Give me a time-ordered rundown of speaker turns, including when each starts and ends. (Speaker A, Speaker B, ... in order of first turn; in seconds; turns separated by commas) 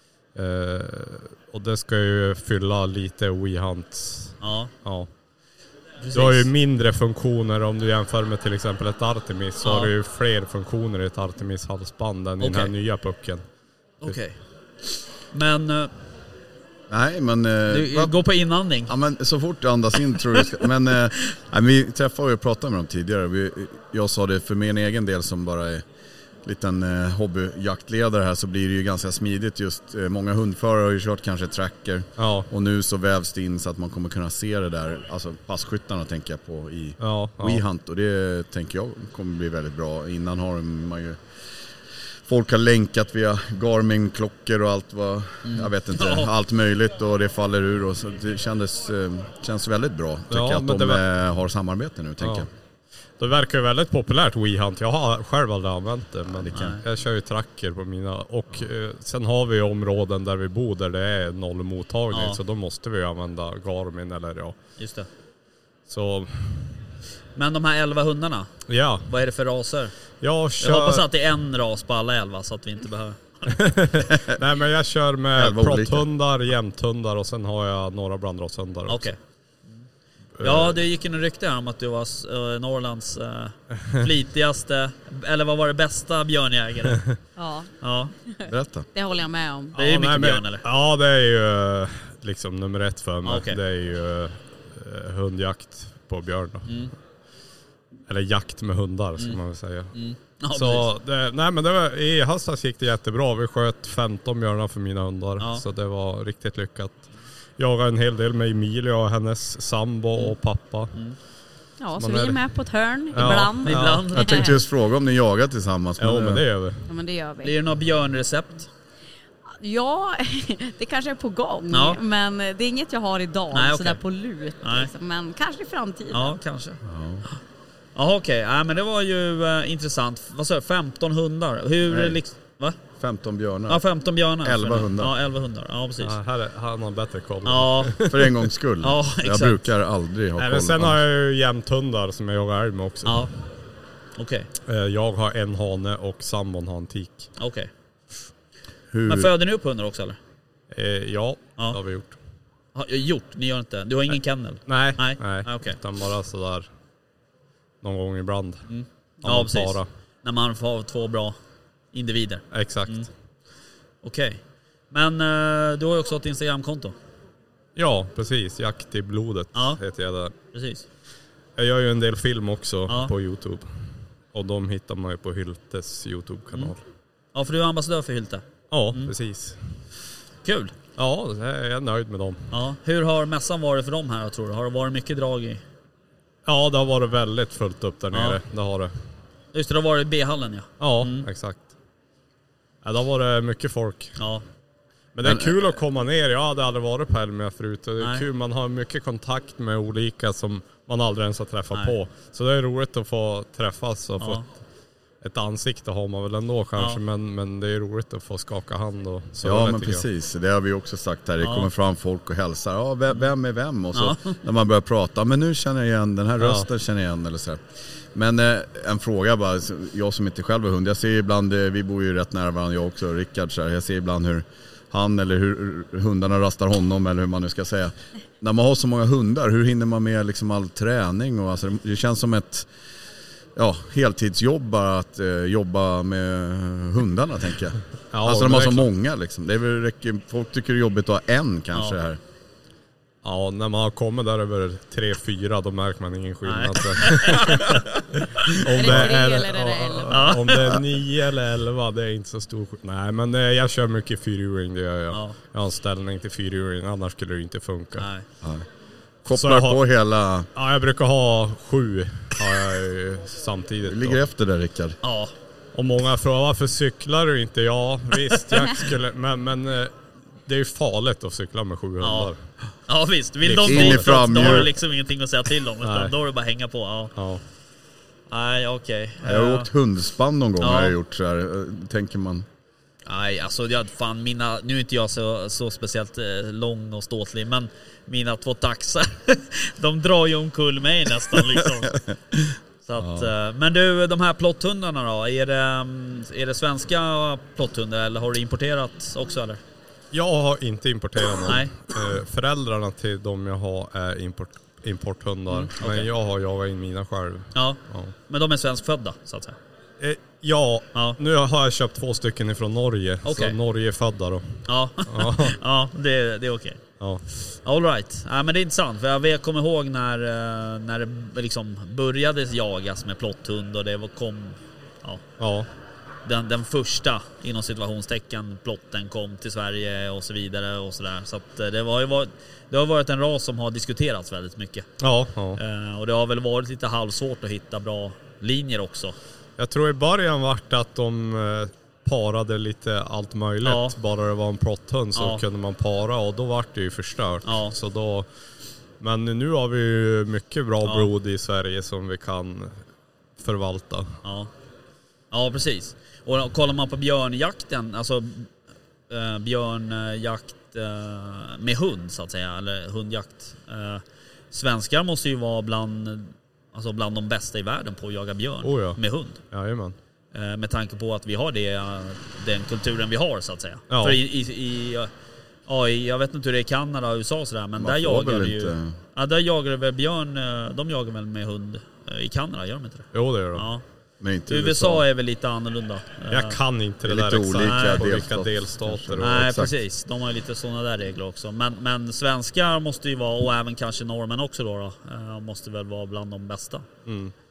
Speaker A: 0.3-5.1, Speaker B: 4.4-4.7, Speaker B: 6.0-6.5, Speaker A: 6.1-13.4, Speaker B: 9.6-9.9, Speaker B: 12.4-12.7, Speaker B: 14.0-14.4, Speaker B: 15.3-15.9, Speaker C: 16.9-18.2, Speaker B: 17.7-18.9, Speaker C: 18.9-25.8, Speaker C: 26.4-41.2, Speaker A: 32.2-32.5, Speaker A: 37.0-37.6, Speaker C: 42.3-52.5, Speaker B: 45.5-46.3, Speaker A: 50.3-51.0, Speaker A: 52.2-52.5, Speaker A: 53.2-64.6, Speaker C: 56.3-56.8, Speaker B: 56.5-56.8, Speaker B: 62.1-62.4, Speaker B: 64.8-65.1, Speaker A: 65.9-66.8, Speaker B: 67.3-68.5, Speaker A: 68.7-69.1, Speaker B: 69.1-69.9, Speaker A: 70.2-71.0, Speaker B: 70.6-73.5, Speaker A: 73.5-79.1, Speaker C: 75.4-76.1, Speaker B: 78.9-79.2, Speaker A: 80.4-80.8, Speaker B: 80.4-87.0, Speaker D: 87.4-87.7, Speaker B: 87.8-88.1, Speaker D: 88.3-89.8, Speaker C: 88.5-88.9, Speaker A: 89.7-96.8, Speaker B: 89.8-90.7, Speaker B: 93.2-93.6, Speaker B: 96.7-96.9, Speaker A: 98.1-99.9, Speaker B: 99.9-100.9, Speaker A: 100.5-111.0, Speaker B: 105.4-105.6, Speaker D: 111.8-114.5, Speaker A: 112.0-112.4, Speaker A: 113.1-114.2, Speaker B: 113.2-114.6, Speaker C: 114.1-116.5, Speaker A: 116.0-116.9, Speaker D: 116.9-117.5, Speaker B: 117.4-118.7, Speaker D: 119.6-126.4, Speaker B: 121.7-122.0, Speaker B: 123.5-124.0, Speaker B: 124.6-124.9, Speaker B: 126.1-127.4, Speaker C: 126.8-127.3, Speaker B: 128.0-132.8, Speaker C: 131.9-132.2, Speaker C: 133.0-133.8, Speaker B: 133.7-136.2, Speaker C: 134.4-135.1, Speaker A: 136.0-138.3, Speaker B: 137.4-137.9, Speaker C: 138.1-141.0, Speaker B: 138.8-139.7, Speaker A: 140.4-143.3, Speaker B: 143.1-143.3, Speaker B: 144.2-144.5, Speaker A: 144.7-147.3, Speaker B: 147.4-147.7, Speaker C: 148.9-149.3, Speaker B: 149.1-150.2, Speaker A: 150.7-152.2, Speaker B: 152.8-155.8, Speaker A: 154.7-156.7, Speaker A: 157.8-158.7, Speaker B: 158.7-161.4, Speaker A: 159.2-159.9, Speaker B: 161.9-163.1, Speaker A: 162.5-163.1, Speaker B: 164.0-164.4, Speaker B: 164.9-167.0, Speaker A: 167.8-170.3, Speaker B: 169.5-169.8, Speaker B: 170.5-170.8, Speaker A: 171.6-173.7, Speaker B: 172.9-173.1, Speaker A: 174.3-176.8, Speaker B: 177.3-179.1, Speaker A: 178.7-179.6, Speaker B: 180.4-180.8, Speaker A: 181.0-182.5, Speaker B: 182.5-185.6, Speaker A: 186.5-188.9, Speaker B: 188.1-188.4, Speaker B: 189.5-191.3, Speaker A: 190.8-191.7, Speaker A: 192.8-194.2, Speaker B: 194.2-194.4, Speaker A: 195.2-204.5, Speaker C: 195.2-195.7, Speaker B: 198.0-198.3, Speaker B: 201.7-202.0, Speaker B: 204.2-204.5, Speaker A: 205.2-210.0, Speaker C: 209.4-217.6, Speaker B: 211.4-211.7, Speaker B: 213.9-214.3, Speaker A: 216.4-216.7, Speaker C: 218.1-232.7, Speaker C: 233.6-242.2, Speaker A: 238.1-238.9, Speaker A: 243.2-258.1, Speaker B: 246.4-247.8, Speaker D: 248.7-250.4, Speaker B: 250.1-250.6, Speaker B: 255.1-255.4, Speaker B: 258.0-258.3, Speaker C: 259.2-260.5, Speaker A: 259.3-259.8, Speaker A: 260.6-264.2, Speaker C: 263.9-265.0, Speaker B: 265.0-265.3, Speaker A: 265.7-269.9, Speaker B: 268.3-268.8, Speaker A: 270.5-272.4, Speaker B: 272.0-272.3, Speaker B: 272.9-277.1, Speaker A: 273.4-274.4, Speaker C: 273.6-274.7, Speaker A: 275.8-276.1, Speaker A: 277.2-277.4, Speaker B: 278.3-279.7, Speaker C: 279.2-282.5, Speaker B: 280.6-280.9, Speaker B: 283.1-292.0, Speaker C: 292.0-293.3, Speaker B: 292.9-299.6, Speaker A: 300.1-308.1, Speaker B: 301.5-301.8, Speaker B: 305.5-306.1, Speaker B: 307.6-309.6, Speaker A: 310.0-315.6, Speaker B: 313.2-313.6, Speaker B: 314.7-316.8, Speaker A: 317.0-317.3, Speaker B: 317.5-325.2, Speaker A: 325.4-325.7, Speaker B: 326.2-334.9, Speaker A: 335.0-335.6, Speaker B: 335.6-339.2, Speaker A: 339.6-348.3, Speaker B: 343.6-344.0, Speaker B: 345.1-345.4, Speaker B: 347.4-347.8, Speaker A: 349.0-352.8, Speaker B: 350.8-351.1, Speaker A: 353.4-354.2, Speaker B: 354.2-354.5, Speaker B: 355.3-358.5, Speaker B: 359.1-369.4, Speaker A: 368.6-369.0, Speaker A: 369.5-370.0, Speaker B: 370.3-375.1, Speaker A: 373.9-374.2, Speaker B: 375.7-383.8, Speaker C: 377.8-379.0, Speaker A: 383.1-383.7, Speaker C: 384.2-385.1, Speaker B: 384.5-386.6, Speaker A: 386.3-389.5, Speaker C: 387.1-389.7, Speaker B: 387.6-388.1, Speaker B: 389.2-396.9, Speaker A: 397.1-397.3